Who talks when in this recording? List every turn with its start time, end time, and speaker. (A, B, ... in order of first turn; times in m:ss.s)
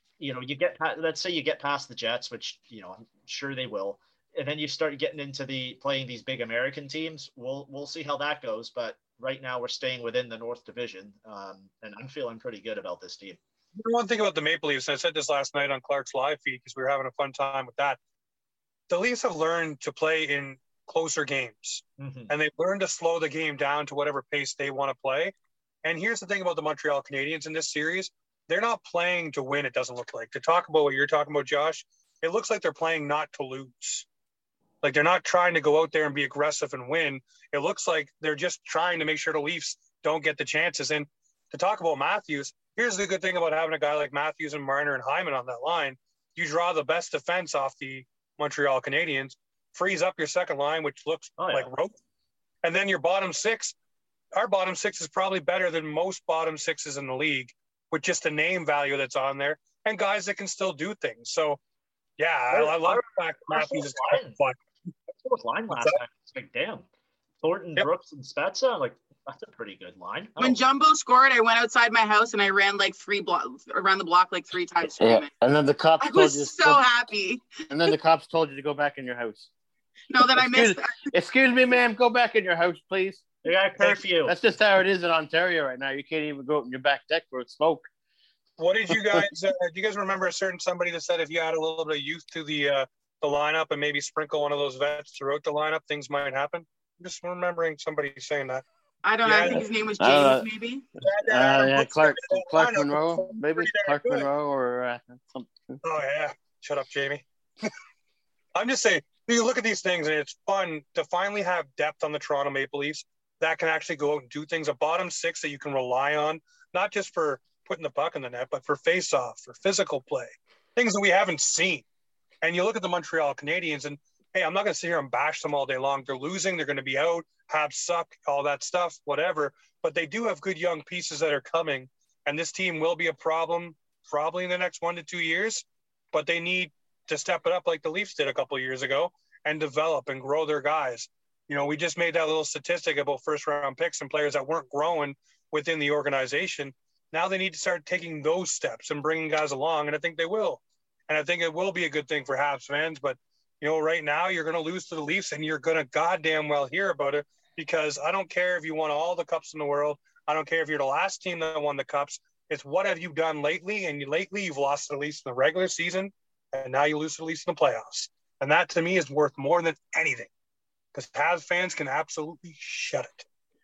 0:00.2-0:13.4 A
0:13.7-0:18.0 B
0:18.9-0:34.1 B
0:22.0-0:22.3 A
0:34.8-0:51.9 B
0:51.4-0:51.7 A
0:52.6-0:53.7 B
0:54.3-1:01.6 B
1:02.2-1:04.6 B
1:02.5-1:04.4 A
1:05.2-1:06.8 A
1:05.7-1:06.0 B
1:07.4-1:10.6 A
1:10.4-1:15.3 C
1:15.0-1:16.8 D
1:16.0-1:17.9 C
1:17.7-1:19.5 D
1:20.1-1:21.1 C
1:20.2-1:23.2 D
1:23.4-1:24.4 A
1:24.2-1:27.8 D
1:28.6-1:38.6 B
1:28.9-1:29.2 D
1:39.0-1:40.8 C
1:39.2-1:39.6 B
1:39.5-1:40.4 D
1:41.0-1:44.3 B
1:41.2-1:45.8 D
1:45.8-1:47.7 B
1:48.5-2:01.8 B
2:02.4-2:50.3 B
2:50.9-2:53.2 B